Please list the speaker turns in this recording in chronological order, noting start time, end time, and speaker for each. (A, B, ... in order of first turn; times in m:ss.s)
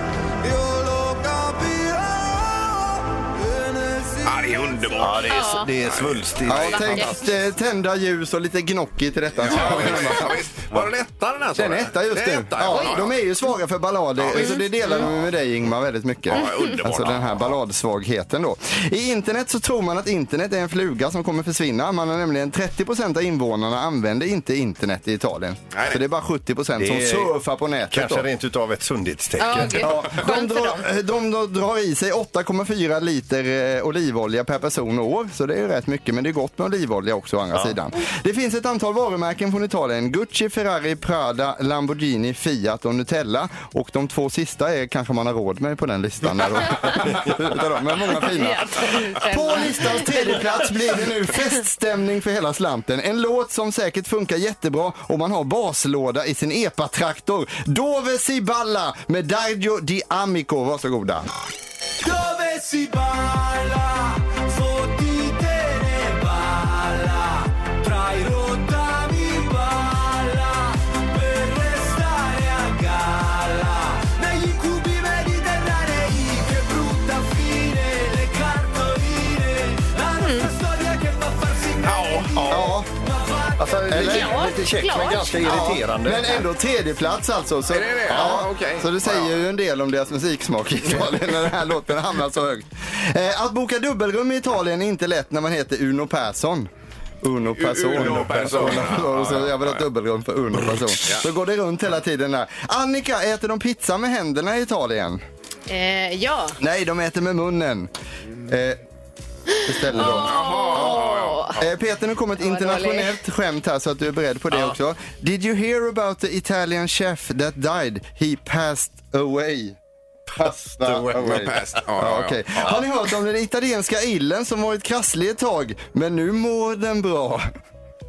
0:00.4-0:04.5 A
0:04.2-0:07.2 B
0:05.0-0:07.0 C
0:05.2-0:05.7 D
0:06.5-0:10.8 E
0:06.7-0:07.1 D
0:09.4-0:13.2 B
0:11.6-0:28.2 E
0:14.2-0:15.1 B
0:14.3-0:15.1 D
0:16.3-0:17.6 B
0:25.7-0:26.0 B
0:26.8-0:29.9 C
0:29.4-0:30.9 D
0:29.8-1:01.3 E
0:37.5-0:37.8 C
0:48.3-0:50.7 D
1:02.0-1:22.4 A
1:20.2-1:20.5 D
1:21.8-1:22.5 B
1:22.3-1:22.7 C
1:22.5-1:22.9 E
1:23.0-1:23.8 A
1:23.6-1:26.5 C
1:23.9-1:24.4 E
1:23.9-1:25.5 D
1:25.4-1:36.7 E
1:27.7-1:29.4 B
1:28.1-1:28.4 C
1:37.2-1:45.2 E
1:37.5-1:39.9 B
1:37.9-1:39.1 C
1:45.7-1:46.6 D
1:46.6-1:47.9 E
1:48.5-1:48.8 E
1:49.5-1:51.6 D
1:49.6-1:59.8 E
1:50.0-1:51.6 B
1:52.4-1:53.2 D
2:00.3-2:01.8 C
2:00.4-2:07.4 E
2:01.2-2:02.7 B
2:02.5-2:02.8 C